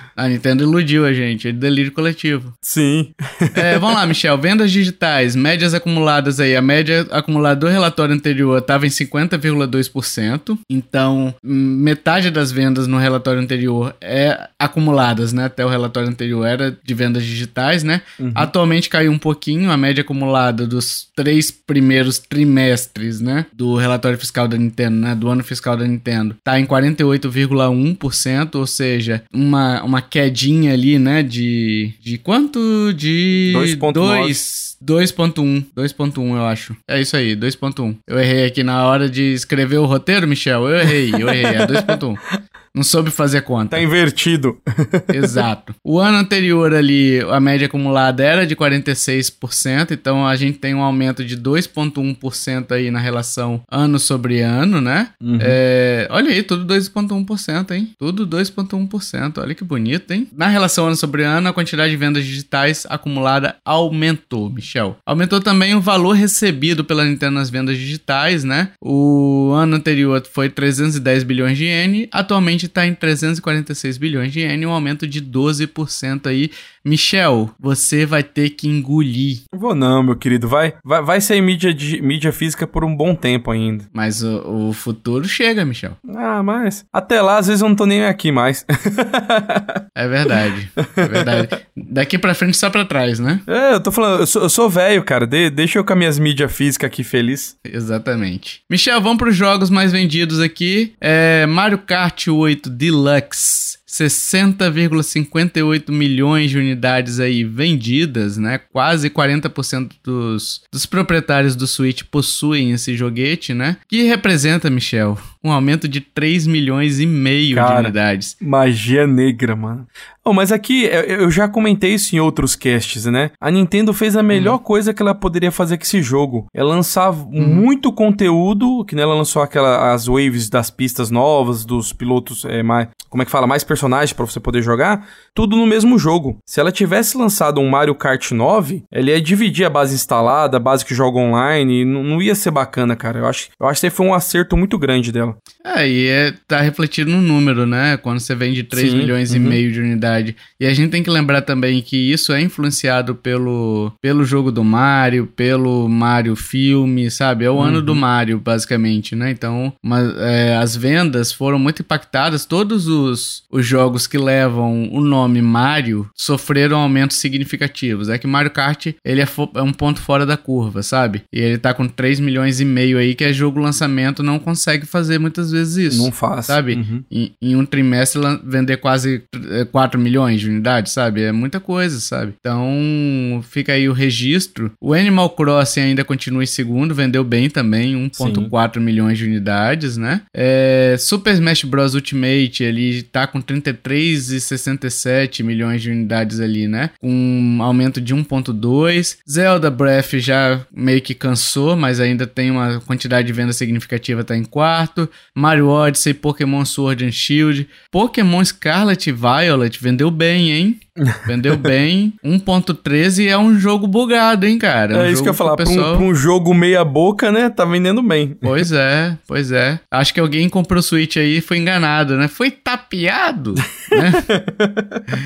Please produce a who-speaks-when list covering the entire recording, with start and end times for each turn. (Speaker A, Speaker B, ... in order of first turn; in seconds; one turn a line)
Speaker A: 0.1-2.5
Speaker B: 2.6-4.0
Speaker A: 3.5-42.2
Speaker B: 18.2-18.5
Speaker B: 33.5-34.4
Speaker B: 41.1-41.9
Speaker A: 42.7-43.8
Speaker B: 43.7-45.4
Speaker A: 45.1-79.4
Speaker B: 55.2-55.6
Speaker B: 79.5-83.8
Speaker A: 83.9-86.0
Speaker B: 86.1-90.3
Speaker A: 89.9-93.4
Speaker B: 90.9-91.5
Speaker B: 93.5-97.5
Speaker A: 97.6-118.3
Speaker B: 117.5-145.4
Speaker A: 124.3-124.6
Speaker A: 127.4-127.7
Speaker A: 145.6-216.1
Speaker B: 148.7-149.6
Speaker B: 157.6-158.0
Speaker B: 175.9-177.0
Speaker B: 188.2-188.5
Speaker B: 211.0-211.7
Speaker B: 214.9-218.7
Speaker A: 218.4-224.3
Speaker B: 223.9-225.0